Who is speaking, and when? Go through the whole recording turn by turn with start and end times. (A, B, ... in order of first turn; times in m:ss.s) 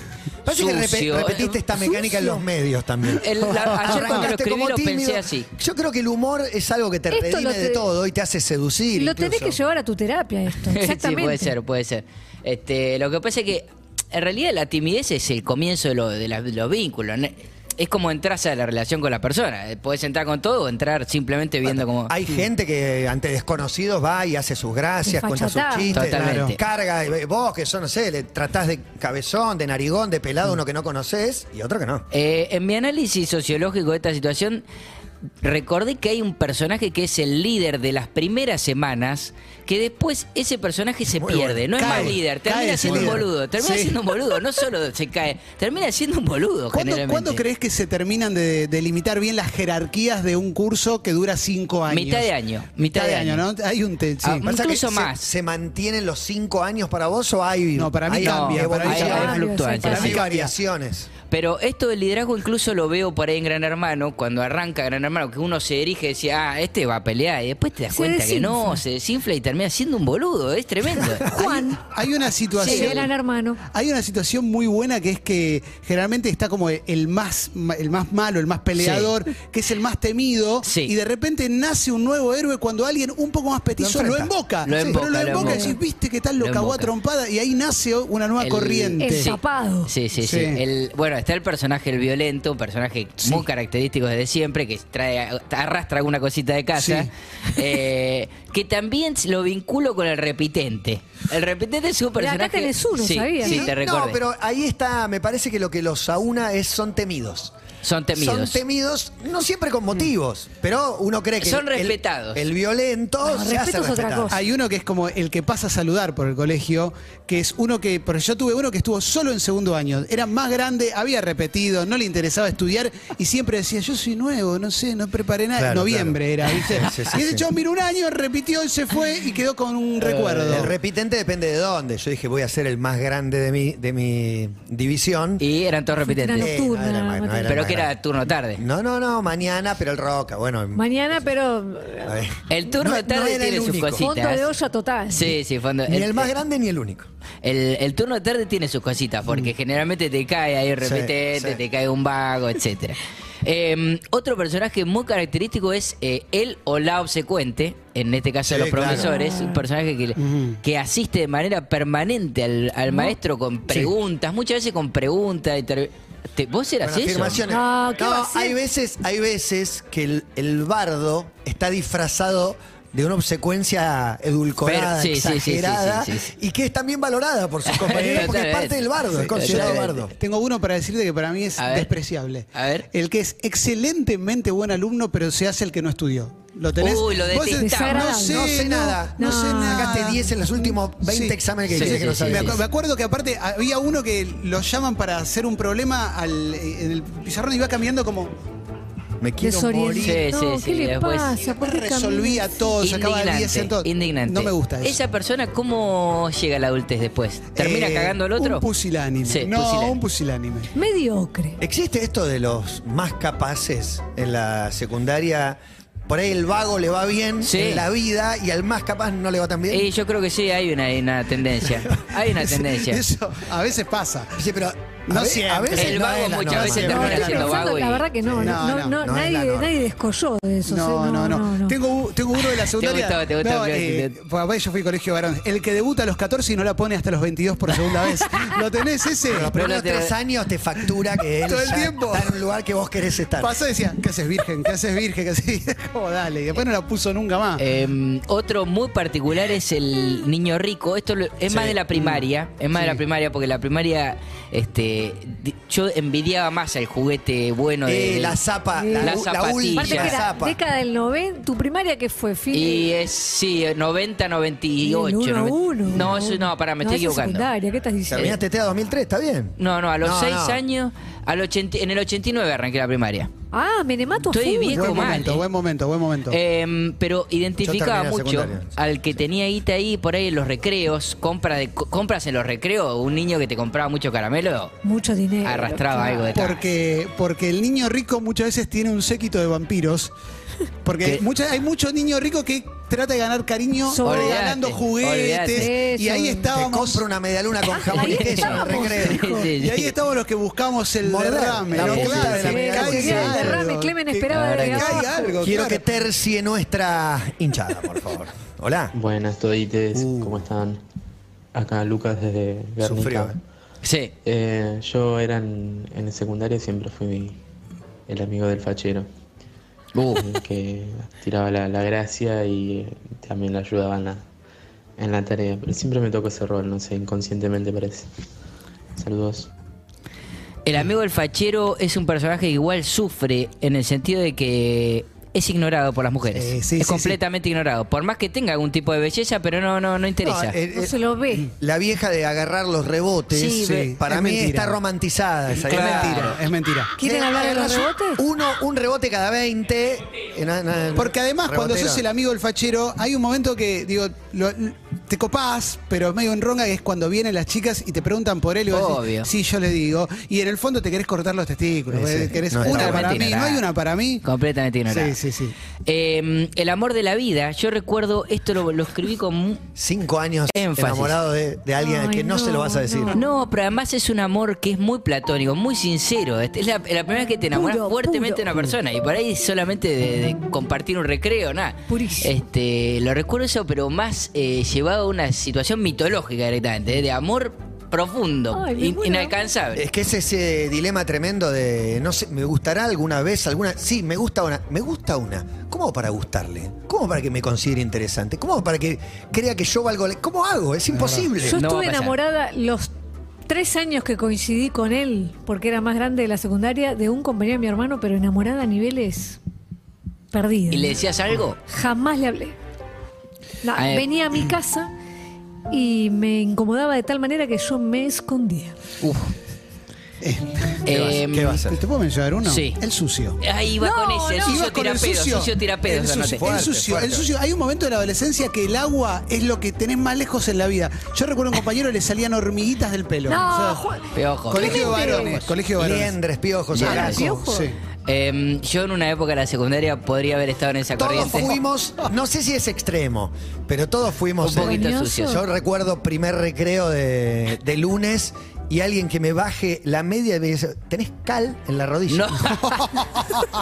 0:00.4-0:09.6 A
0:00.5-0:01.5 B
0:01.9-0:02.4 C
0:03.2-0:05.5 B
0:07.1-0:07.8 C
0:08.9-0:11.5 C
0:10.6-0:22.1 B
0:21.6-0:32.0 A
0:25.1-0:25.9 C
0:25.9-0:26.6 B
0:26.0-0:26.5 D
0:32.1-0:34.6 B
0:35.4-0:47.4 B
0:41.1-0:42.2 A
0:41.8-0:44.0 D
0:42.9-0:43.2 A
0:46.7-0:54.5 D
0:51.9-0:53.4 B
0:54.2-0:55.3 B
0:54.4-1:01.1 A
0:57.7-0:59.4 D
0:58.2-1:00.2 B
0:58.9-1:00.2 C
0:59.9-1:00.5 D
1:01.3-1:11.3 B
1:07.9-1:08.8 C
1:11.3-1:11.9 C
1:11.3-1:13.1 D
1:12.6-1:13.6 C
1:12.6-1:13.0 B
1:13.7-1:29.3 D
1:18.8-1:19.1 B
1:20.6-1:20.9 B
1:23.8-1:24.3 A
1:24.6-1:25.8 B
1:25.3-1:25.8 C
1:26.4-1:26.9 B
1:28.4-1:29.3 B
1:29.0-1:29.9 C
1:29.8-1:44.2 B
1:30.2-1:30.6 D
1:36.8-1:37.1 D
1:42.2-1:43.6 C
1:43.4-1:47.5 A
1:47.8-1:48.6 B
1:48.1-1:54.3 A
1:51.4-1:52.4 B
1:53.2-1:54.3 C
1:54.3-2:10.7 D
2:05.6-2:07.5 A
2:10.0-2:10.7 B
2:10.5-2:15.4 A
2:15.4-2:16.5 B
2:16.0-2:17.5 C
2:16.4-2:17.9 A
2:17.4-2:18.6 B
2:18.5-2:21.2 A
2:20.7-2:22.1 C
2:22.0-2:24.0 A
2:22.5-2:24.4 B
2:23.9-2:25.3 C
2:25.1-2:26.3 B
2:25.9-2:27.1 A
2:27.4-2:47.4 B
2:30.8-2:31.6 A
2:38.5-2:39.1 A
2:38.9-2:39.6 C
2:40.2-2:40.6 D
2:42.9-2:43.1 C
2:46.8-3:00.1 A
2:47.5-2:48.6 C
2:54.6-2:56.3 B
2:57.7-3:00.0 B
2:57.9-2:58.3 D
2:59.1-3:18.3 D
3:01.6-3:01.9 B
3:02.5-3:02.8 B
3:06.8-3:08.2 B
3:07.5-3:08.5 C
3:08.2-3:12.6 A
3:09.2-3:10.1 C
3:11.7-3:12.6 B
3:19.2-3:20.2 A
3:19.4-3:22.7 C
3:20.0-3:21.4 B
3:21.4-3:25.0 D
3:22.8-3:28.6 B
3:27.6-3:30.7 D
3:29.2-3:30.0 B
3:30.7-3:31.6 C
3:31.6-3:39.9 A
3:37.4-3:37.8 B
3:39.7-3:43.0 B
3:42.4-3:44.4 D
3:44.4-3:47.6 A
3:45.1-3:47.3 D
3:45.7-3:48.0 B
3:46.8-3:51.8 C
3:48.3-3:49.7 A
3:48.4-3:49.0 D
3:50.7-3:59.5 D
3:52.7-3:54.1 B
3:59.3-4:03.6 A
3:59.5-4:00.1 B
4:01.4-4:02.4 D
4:03.4-4:07.6 D
4:07.6-4:18.4 B
4:11.5-4:12.2 A
4:17.8-4:20.6 A
4:18.8-4:19.2 C
4:19.0-4:20.2 B
4:19.7-4:22.9 C
4:22.5-4:27.5 B
4:24.8-4:28.4 C
4:28.1-4:30.6 A
4:29.6-4:33.3 B
4:33.5-4:35.2 C
4:34.3-4:35.4 B
4:34.7-4:36.4 D
4:36.3-4:44.7 B
4:37.6-4:38.8 A
4:44.8-4:46.5 C
4:45.4-4:46.6 B
4:46.3-4:50.1 D
4:50.8-4:57.0 D
4:53.9-4:54.5 C
4:54.0-4:55.7 B
4:55.5-4:56.5 C
4:56.5-4:59.2 A
4:57.7-4:59.4 C
4:58.0-4:59.9 B
4:59.2-5:05.8 D
5:01.0-5:03.6 A
5:01.8-5:02.3 B
5:02.3-5:05.4 C
5:04.3-5:05.0 B
5:05.4-5:08.9 A
5:08.9-5:10.8 E
5:09.9-5:10.4 A
5:11.5-5:13.4 E
5:12.8-5:13.4 A
5:13.8-5:14.1 B
5:14.2-5:17.4 E
5:18.1-5:19.1 E
5:19.9-5:20.3 B
5:20.2-5:24.2 E
5:25.0-5:28.1 E
5:29.0-5:29.5 E
5:30.6-5:40.5 B
5:36.3-5:37.2 D
5:40.2-5:41.0 A
5:40.7-5:41.5 C
5:41.6-5:46.3 A
5:43.3-5:43.9 B
5:43.6-5:44.8 D
5:45.6-5:46.9 D
5:45.7-5:46.4 B
5:47.0-5:48.2 C
5:47.0-5:52.0 A
5:50.9-6:04.2 D
5:58.7-5:59.3 B
6:01.9-6:03.2 A
6:02.6-6:03.6 B
6:04.2-6:05.2 B
6:04.9-6:05.5 D
6:05.8-6:09.6 B
6:09.8-6:13.2 A
6:10.5-6:11.2 B
6:11.8-6:13.3 C
6:13.1-6:29.8 B
6:17.5-6:18.7 C
6:21.9-6:22.4 C
6:28.5-6:29.4 C
6:29.7-6:41.6 A
6:40.9-6:41.2 D
6:41.4-6:42.9 C
6:41.5-6:42.2 B
6:43.5-6:49.4 C
6:50.3-6:51.0 C
6:50.7-6:51.6 B
6:51.7-6:52.5 C
6:53.6-6:54.9 C
6:53.7-6:54.0 B
6:55.7-6:58.7 C
6:59.0-6:59.3 B
7:00.2-7:00.8 D
7:00.8-7:01.6 B
7:00.8-7:01.8 A
7:01.6-7:03.4 D
7:02.4-7:02.8 B
7:03.4-7:06.4 B
7:03.8-7:04.6 C
7:04.5-7:13.8 D
7:06.4-7:07.3 A
7:13.3-7:15.4 C
7:14.1-7:15.4 B
7:14.5-7:16.2 D
7:15.8-7:17.3 A
7:16.7-7:17.2 B
7:16.8-7:17.8 D
7:16.8-7:17.7 C
7:18.1-7:21.5 B
7:21.0-7:32.5 A
7:24.4-7:25.4 B
7:24.6-7:25.4 C
7:32.1-7:32.9 B
7:32.6-7:33.2 D